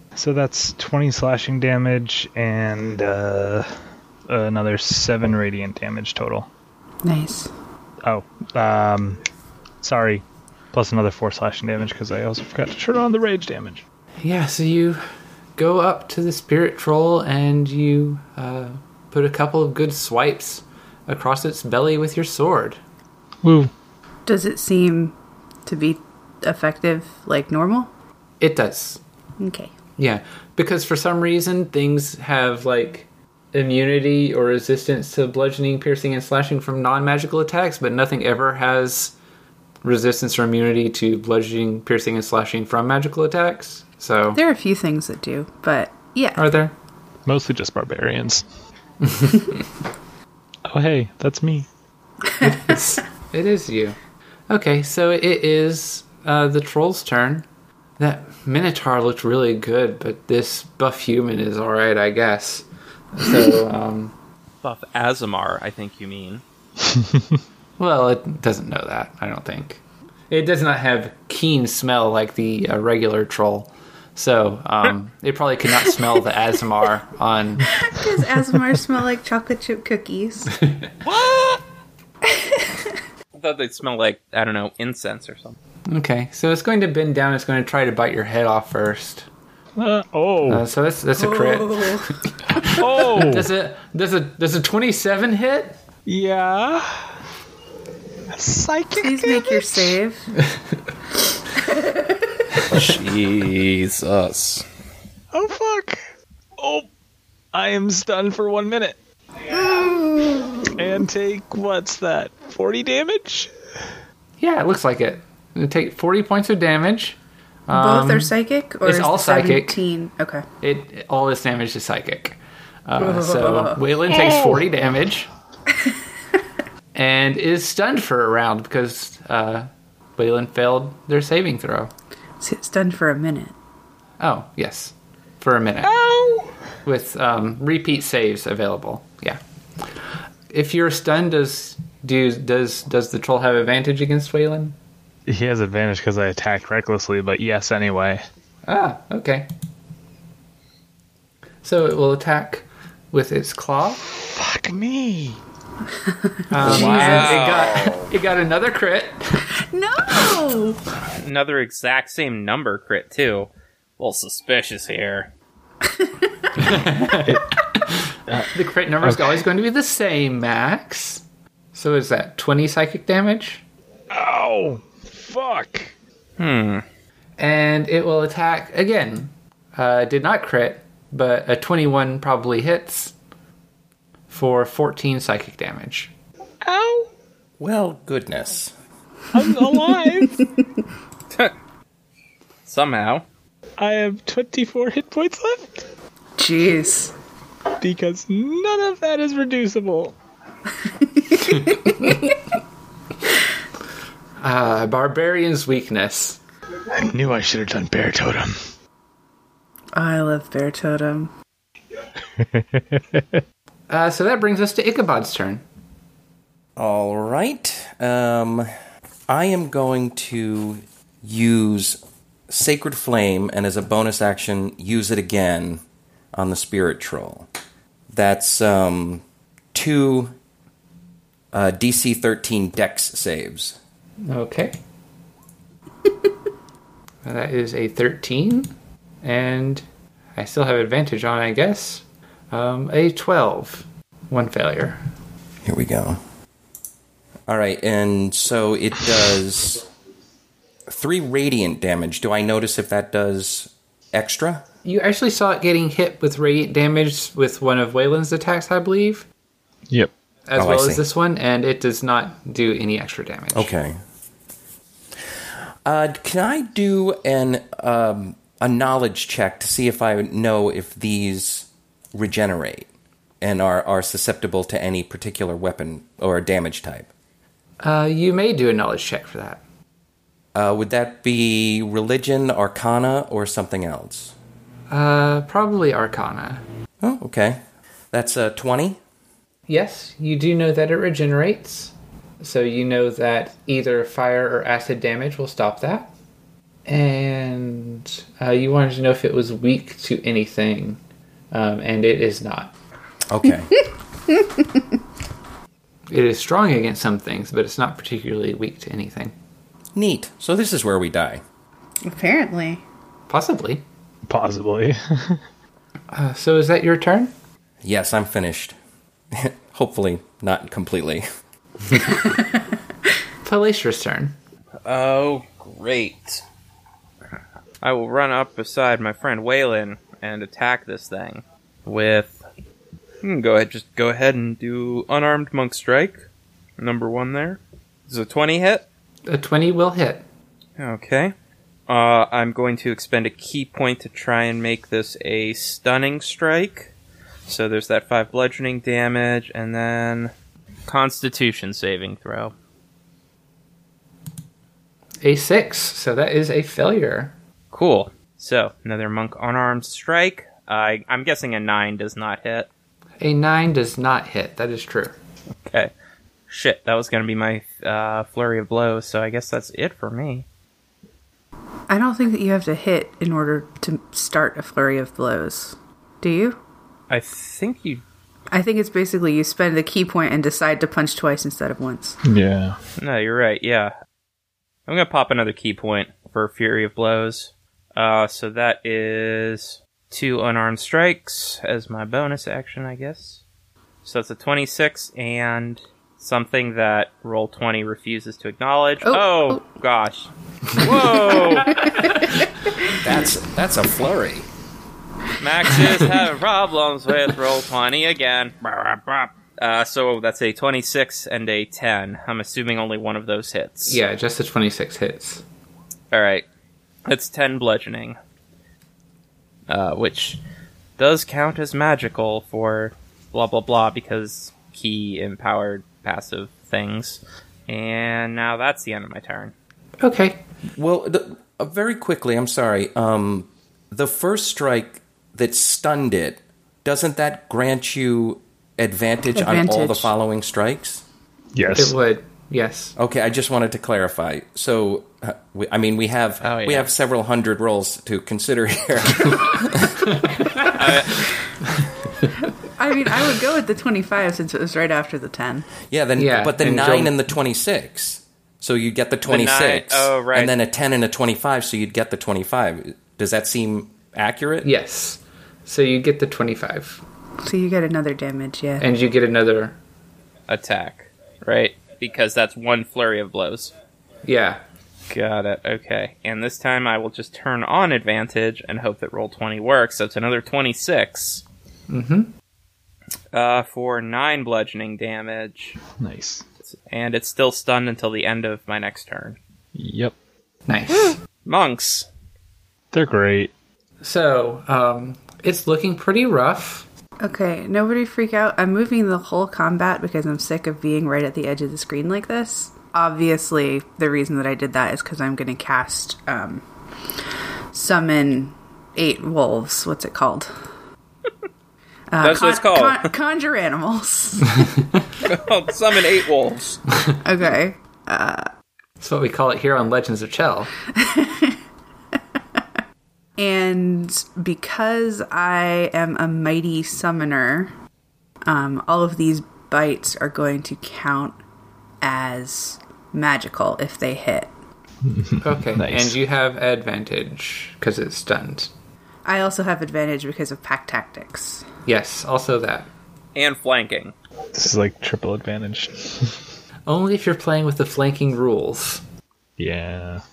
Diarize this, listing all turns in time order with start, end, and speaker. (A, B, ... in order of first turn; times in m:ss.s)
0:00.2-0:06.5 A
0:07.0-0:07.5 B
0:08.0-0:09.2 A
0:09.8-0:13.8 A
0:14.2-0:15.0 C
0:15.6-0:22.8 C
0:23.4-0:23.7 A
0:24.2-0:25.1 B
0:25.6-0:27.9 B
0:28.4-0:29.0 C
0:29.4-0:29.7 B
0:30.0-0:39.1 C
0:39.8-0:44.4 C
0:44.3-0:46.4 B
0:46.4-0:46.7 C
0:47.2-0:48.4 A
0:49.1-0:49.5 C
0:50.6-0:51.7 A
0:52.4-0:54.0 C
0:54.5-0:57.4 C
0:58.0-1:04.1 C
1:04.6-1:06.4 D
1:07.8-1:17.8 C
1:17.7-1:20.6 B
1:21.0-1:21.6 D
1:22.3-1:22.7 B
1:23.3-1:25.6 D
1:25.9-1:29.2 C
1:29.8-1:30.6 A
1:30.4-1:32.1 C
1:31.2-1:32.2 B
1:32.5-1:33.5 A
1:32.6-1:35.8 C
1:36.0-1:37.2 A
1:38.3-1:39.9 A
1:38.9-1:40.3 B
1:41.6-1:42.4 B
1:42.7-1:44.6 D
1:45.3-1:46.0 A
1:46.6-1:46.9 A
1:47.5-1:49.0 A
1:49.5-1:53.5 A
1:54.4-1:57.2 C
1:57.7-1:58.3 C
1:57.7-2:00.4 B
1:58.8-1:59.8 C
2:00.6-2:05.3 C
2:03.0-2:03.8 B
2:04.1-2:04.6 A
2:06.9-2:11.9 C
2:12.4-2:13.5 B
2:14.2-2:15.9 C
2:16.0-2:16.5 A
2:16.8-2:19.4 C
2:20.5-2:24.7 C
2:25.3-2:28.2 A
2:28.6-2:29.5 C
2:31.6-2:34.0 C
2:34.1-2:35.4 A
2:36.3-2:37.1 B
2:36.5-2:39.3 C
2:36.6-2:37.3 A
2:36.6-2:38.1 D
2:39.6-2:40.8 B
2:41.2-2:45.3 D
2:46.0-2:46.5 B
2:46.6-2:47.8 C
2:46.6-2:47.4 A
2:48.3-2:49.4 A
2:48.5-2:53.6 C
2:54.1-2:55.9 A
2:56.4-2:56.8 D
2:57.4-3:03.1 C
3:04.3-3:06.1 C
3:06.6-3:07.1 A
3:07.6-3:08.7 E
3:09.3-3:10.5 A
3:12.6-3:13.2 D
3:13.8-3:15.9 A
3:16.4-3:17.1 B
3:17.8-3:20.2 A
3:20.8-3:22.1 B
3:24.4-3:26.4 C
3:26.9-3:28.7 A
3:29.9-3:31.3 B
3:32.4-3:33.4 A
3:33.9-3:35.6 C
3:36.8-3:38.7 E
3:39.3-3:45.8 E
3:46.3-3:47.5 E
3:48.1-3:49.2 E
3:49.7-3:50.3 E
3:51.5-3:53.8 E
3:54.2-3:54.8 C
3:57.2-3:58.7 C
3:59.2-4:05.0 C
4:05.6-4:06.2 E
4:07.5-4:09.9 E
4:10.9-4:14.6 E
4:14.8-4:19.2 C
4:20.5-4:23.7 C
4:20.6-4:21.0 E
4:23.5-4:24.0 E
4:25.8-4:32.9 E
4:33.4-4:37.1 E
4:37.8-4:39.6 C
4:40.5-4:44.3 E
4:44.9-4:46.6 C
4:47.0-4:47.6 E
4:48.1-4:49.0 E
4:49.7-4:56.1 C
4:56.8-5:01.0 C
5:01.5-5:02.7 C
5:03.3-5:03.7 E
5:06.1-5:09.3 C
5:09.9-5:11.4 E
5:12.0-5:12.8 B
5:13.3-5:13.8 C
5:14.3-5:15.4 A
5:16.1-5:17.3 C
5:17.8-5:18.7 E
5:19.3-5:21.2 E
5:23.4-5:24.3 C
5:24.8-5:26.4 D
5:27.8-5:32.4 D
5:33.2-5:36.2 D
5:36.8-5:38.8 D
5:39.2-5:40.2 C
5:40.8-5:41.3 D
5:41.9-5:46.9 D
5:47.5-5:50.3 D
5:50.9-5:52.5 D
5:55.2-5:57.3 C
5:57.7-6:02.7 D
6:03.2-6:05.1 C
6:05.7-6:05.9 D
6:06.5-6:10.4 D
6:11.9-6:16.6 B
6:17.1-6:18.0 D
6:18.5-6:22.2 B
6:22.2-6:22.8 A
6:23.0-6:23.9 D
6:24.9-6:33.4 D
6:34.0-6:42.1 D
6:39.0-6:39.6 B
6:41.8-6:42.2 B
6:43.0-6:44.5 E
6:45.4-6:54.0 D
6:53.9-6:55.4 C
6:56.1-6:56.4 D
6:57.0-6:58.2 D
6:59.7-7:00.4 D
7:01.0-7:09.5 D
7:10.0-7:10.4 C
7:10.7-7:21.0 E
7:19.3-7:20.1 B
7:21.5-7:22.0 A
7:21.7-7:22.9 C
7:23.0-7:30.1 E
7:26.4-7:26.9 D
7:30.2-7:30.8 C
7:30.7-7:31.3 D
7:32.8-7:35.7 B
7:35.9-7:44.7 E
7:36.2-7:37.1 C
7:39.3-7:40.5 D
7:44.6-7:47.0 C
7:47.4-7:48.9 B
7:48.8-7:49.8 C
7:50.5-7:53.7 D
7:54.2-7:54.6 C
7:55.1-8:01.4 D
8:01.9-8:02.3 C
8:03.3-8:05.8 D
8:06.0-8:06.4 A
8:06.7-8:09.4 D
8:09.7-8:10.2 A
8:10.7-8:11.2 C
8:11.1-8:12.1 D
8:12.9-8:13.5 A
8:14.0-8:16.8 C
8:17.2-8:26.6 B
8:27.7-8:30.5 B
8:32.1-8:34.5 B
8:32.2-8:33.1 D
8:34.6-8:34.8 C
8:35.2-8:36.8 D
8:37.2-8:38.5 B
8:39.0-8:40.7 C
8:40.9-8:41.6 B
8:43.4-8:47.7 B
8:48.4-8:51.4 B
8:52.0-8:54.5 B
8:55.1-8:56.2 A
8:55.4-8:58.7 C
8:59.2-9:01.7 B
9:01.8-9:02.9 C
9:03.3-9:04.1 D
9:04.5-9:06.4 A
9:06.8-9:09.0 C
9:09.6-9:10.2 A